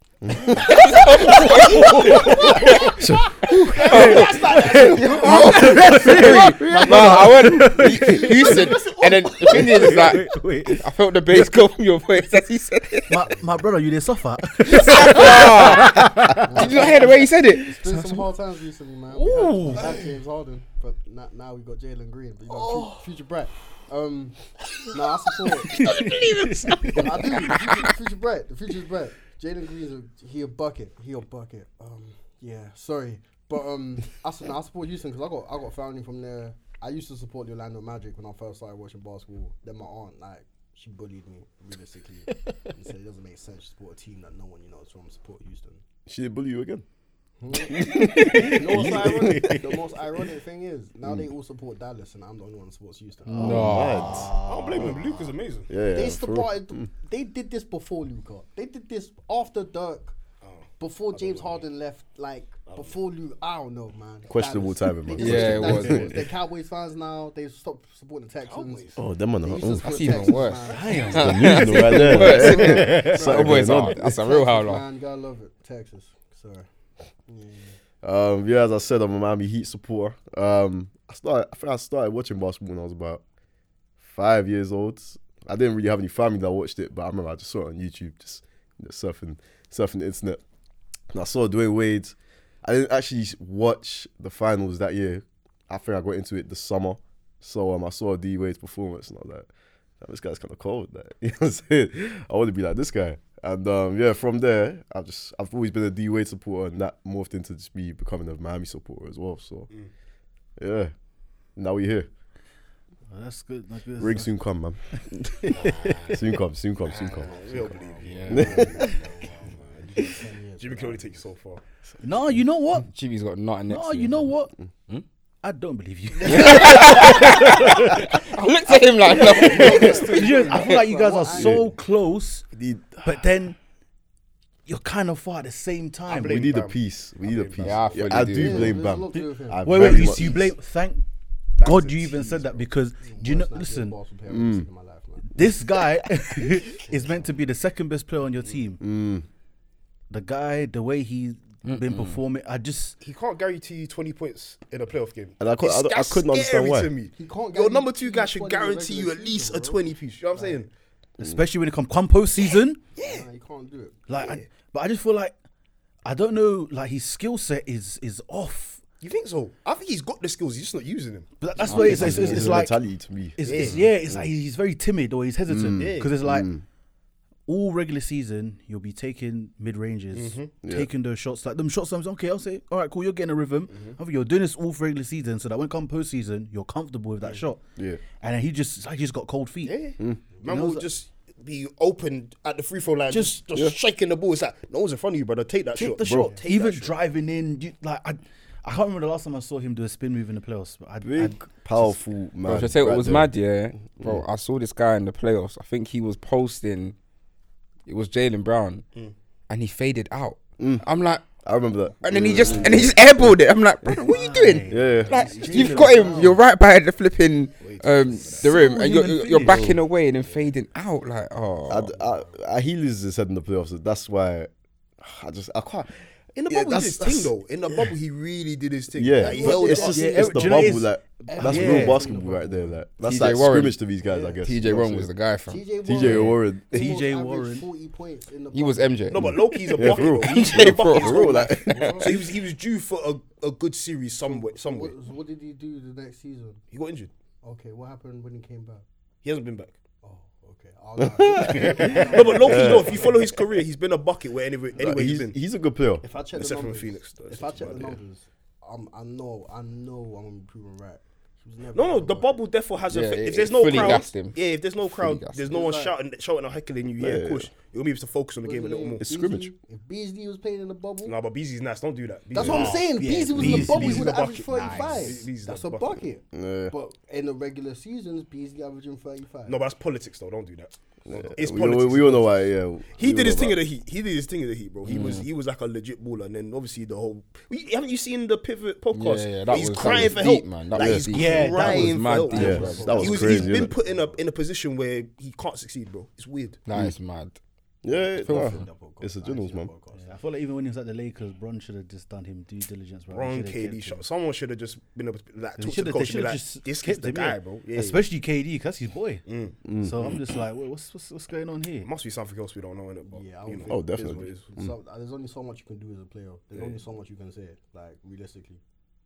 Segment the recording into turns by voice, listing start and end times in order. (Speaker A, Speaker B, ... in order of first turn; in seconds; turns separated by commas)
Speaker A: 0.2-0.7, Speaker B: 0.5-13.3, Speaker C: 0.7-2.9, Speaker D: 0.7-2.9, Speaker A: 3.0-3.4, Speaker D: 3.5-6.7, Speaker C: 3.7-10.8, Speaker E: 3.7-5.2, Speaker A: 5.2-5.5, Speaker D: 7.8-10.1, Speaker C: 13.1-16.7, Speaker B: 14.6-18.2, Speaker D: 16.4-25.8, Speaker C: 19.1-20.0, Speaker C: 25.6-27.1, Speaker B: 25.7-27.9, Speaker D: 26.9-45.8, Speaker C: 42.3-42.7, Speaker A: 46.1-46.8, Speaker D: 47.4-53.7, Speaker A: 47.7-49.7, Speaker C: 47.8-49.7, Speaker A: 51.0-51.3, Speaker C: 53.3-55.0, Speaker B: 53.3-54.1, Speaker A: 53.4-55.0, Speaker E: 54.4-55.7, Speaker A: 55.7-56.9, Speaker D: 55.9-60.1, Speaker E: 60.4-61.6, Speaker D: 60.8-76.7, Speaker E: 62.7-63.0, Speaker A: 64.3-66.2, Speaker B: 65.2-66.1, Speaker E: 68.4-69.0, Speaker A: 69.0-70.2, Speaker B: 69.8-74.8, Speaker C: 70.7-73.2, Speaker A: 71.1-74.0, Speaker D: 77.2-77.8, Speaker A: 78.0-83.2, Speaker A: 84.0-90.4, Speaker A: 91.1-99.5, Speaker A: 100.0-109.7, Speaker A: 110.6-110.9, Speaker A: 111.5-112.1, Speaker C: 113.1-114.3, Speaker A: 114.0-114.8, Speaker C: 115.4-116.1, Speaker B: 115.6-116.2, Speaker A: 116.1-117.3, Speaker D: 116.9-121.3, Speaker E: 116.9-119.1, Speaker B: 118.0-118.9, Speaker A: 118.3-118.8, Speaker E: 120.6-121.6, Speaker C: 122.0-122.9, Speaker B: 122.9-124.3, Speaker C: 123.7-124.5, Speaker C: 125.4-128.0, Speaker B: 126.2-130.2, Speaker A: 126.8-127.2, Speaker D: 129.0-131.6, Speaker A: 129.0-130.0, Speaker C: 129.4-132.4, Speaker A: 131.3-131.7, Speaker A: 132.5-133.1, Speaker C: 133.0-133.6, Speaker C: 134.7-136.5, Speaker E: 136.1-138.3, Speaker A: 136.2-140.5, Speaker B: 137.6-138.8, Speaker D: 138.3-140.4, Speaker C: 139.1-141.0, Speaker E: 141.6-142.7, Speaker C: 141.6-143.9, Speaker D: 143.0-145.5, Speaker A: 144.3-144.7, Speaker C: 145.3-148.8, Speaker A: 148.8-149.2, Speaker C: 150.1-153.0, Speaker B: 151.6-152.2, Speaker E: 153.0-160.7, Speaker A: 155.4-156.9, Speaker D: 157.2-159.8, Speaker D: 160.3-160.7, Speaker C: 161.2-162.8, Speaker E: 162.9-163.3, Speaker D: 163.0-164.0, Speaker C: 164.1-165.3, Speaker E: 164.2-164.4, Speaker C: 166.0-168.8, Speaker E: 169.0-171.3, Speaker C: 171.4-172.8, Speaker A: 171.7-174.3, Speaker B: 171.7-172.4, Speaker E: 171.8-172.1, Speaker C: 173.4-176.5, Speaker E: 173.4-173.8, Speaker A: 175.5-176.6, Speaker E: 175.8-176.1, Speaker C: 177.5-187.6, Speaker E: 180.1-180.5, Speaker A: 180.6-180.9, Speaker E: 183.7-183.9, Speaker C: 188.2-189.8, Speaker E: 189.7-196.9, Speaker C: 190.4-190.9, Speaker C: 193.1-193.4, Speaker C: 195.7-202.0, Speaker A: 196.0-196.3, Speaker A: 201.0-204.2, Speaker B: 202.4-206.9, Speaker B: 207.8-208.8, Speaker B: 209.5-211.3, Speaker A: 210.6-213.3, Speaker B: 212.0-221.9, Speaker C: 213.9-215.9, Speaker A: 214.7-215.2, Speaker D: 214.8-216.4, Speaker E: 215.4-216.3, Speaker E: 217.6-219.7, Speaker C: 218.7-219.3, Speaker A: 219.4-219.8, Speaker A: 221.7-225.9, Speaker D: 221.9-222.4, Speaker E: 226.3-230.2, Speaker A: 226.5-227.1, Speaker C: 226.7-227.2, Speaker A: 228.9-235.1, Speaker D: 229.2-232.8, Speaker C: 229.8-232.2, Speaker B: 233.0-233.8, Speaker E: 234.0-234.3, Speaker B: 234.4-236.3, Speaker D: 235.4-239.1, Speaker A: 235.8-236.8, Speaker C: 236.1-237.7, Speaker B: 238.5-241.7, Speaker E: 239.1-244.9, Speaker A: 239.2-242.1, Speaker D: 241.1-242.3, Speaker D: 244.3-246.6, Speaker E: 246.7-247.1, Speaker D: 247.4-248.8, Speaker E: 249.2-249.7, Speaker D: 250.0-253.3, Speaker A: 251.0-253.2, Speaker C: 251.6-252.3, Speaker E: 252.0-255.3, Speaker A: 254.8-256.0, Speaker D: 256.0-262.3, Speaker E: 256.3-258.0, Speaker E: 261.7-269.0, Speaker B: 262.9-265.6, Speaker D: 265.5-266.0, Speaker A: 267.0-267.5, Speaker D: 268.4-271.2, Speaker A: 269.0-269.5, Speaker E: 271.0-276.0, Speaker D: 272.3-279.6, Speaker C: 272.4-275.1, Speaker A: 276.3-276.7, Speaker E: 279.4-296.6, Speaker A: 281.1-283.6, Speaker B: 284.9-285.3, Speaker B: 288.9-293.1, Speaker A: 289.8-290.1, Speaker A: 290.7-291.1, Speaker C: 291.1-293.1, Speaker D: 292.1-294.2, Speaker A: 292.3-293.7, Speaker B: 296.7-297.4, Speaker A: 297.8-299.7, Speaker D: 297.9-300.1, Speaker B: 298.2-298.6, Speaker C: 299.9-304.0, Speaker E: 303.1-308.0, Speaker C: 305.6-309.2, Speaker E: 309.2-309.6, Speaker A: 309.6-310.1, Speaker C: 309.8-311.9, Speaker E: 311.8-314.4, Speaker D: 313.1-318.6, Speaker A: 313.7-314.7, Speaker E: 316.5-316.8